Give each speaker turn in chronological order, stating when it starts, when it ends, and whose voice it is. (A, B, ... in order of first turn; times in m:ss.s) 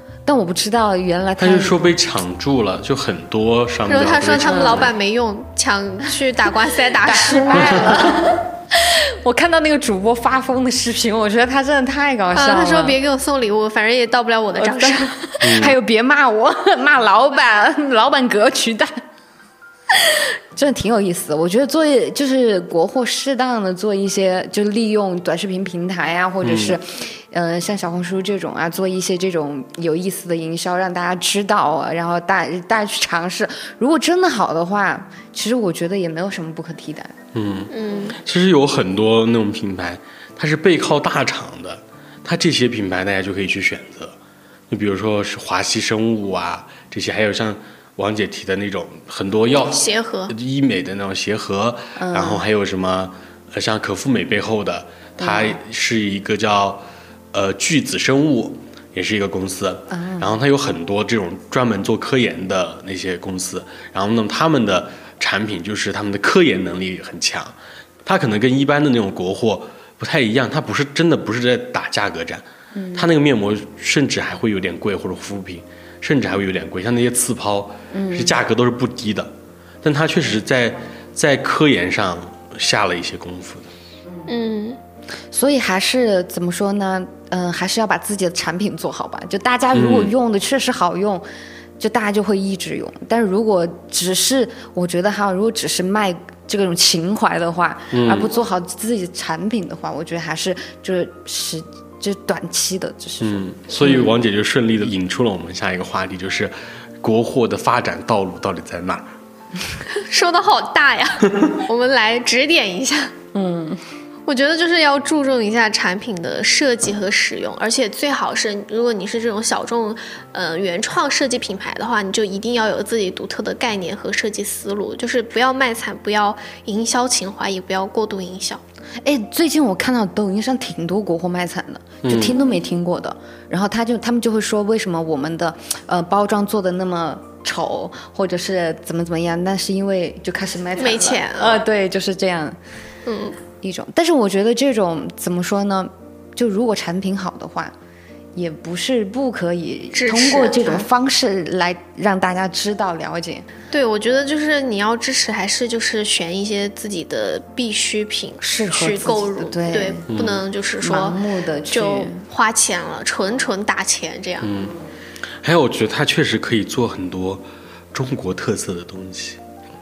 0:00.2-0:01.9 A
0:01.4-0:04.9 B
0:03.9-0:08.2 C
0:04.4-0:04.9 A
0:07.0-0:13.0 A
0:07.6-0:08.1 B
0:12.3-0:15.2 C
0:14.6-0:18.9 A
0:15.4-0:15.8 B
0:20.5-0:37.2 A
0:26.4-0:26.8 B
0:37.4-0:44.2 B
0:37.7-0:38.2 C
0:44.7-1:19.3 B
0:49.5-0:50.3 C
0:52.0-0:52.4 A
0:55.2-0:55.6 A
0:59.9-1:00.4 A
1:12.7-1:13.1 A
1:17.9-1:18.4 A
1:19.8-1:23.7 B
1:24.3-1:24.8 C
1:25.3-1:31.2 A
1:29.7-1:30.1 B
1:31.8-1:44.2 A
1:37.9-1:38.3 B
1:43.2-1:49.1 B
1:49.9-1:53.1 C
1:53.3-1:53.8 A
1:54.3-2:08.6 C
2:09.0-2:22.6 A
2:12.0-2:12.4 B
2:20.8-2:21.6 C
2:23.1-2:23.4 C
2:23.6-2:27.7 A
2:28.4-2:33.5 A
2:29.9-2:30.9 C
2:33.7-2:44.5 C
2:38.4-2:40.0 A
2:40.1-2:40.4 B
2:40.8-2:42.2 A
2:44.4-2:44.8 B
2:45.4-2:49.4 B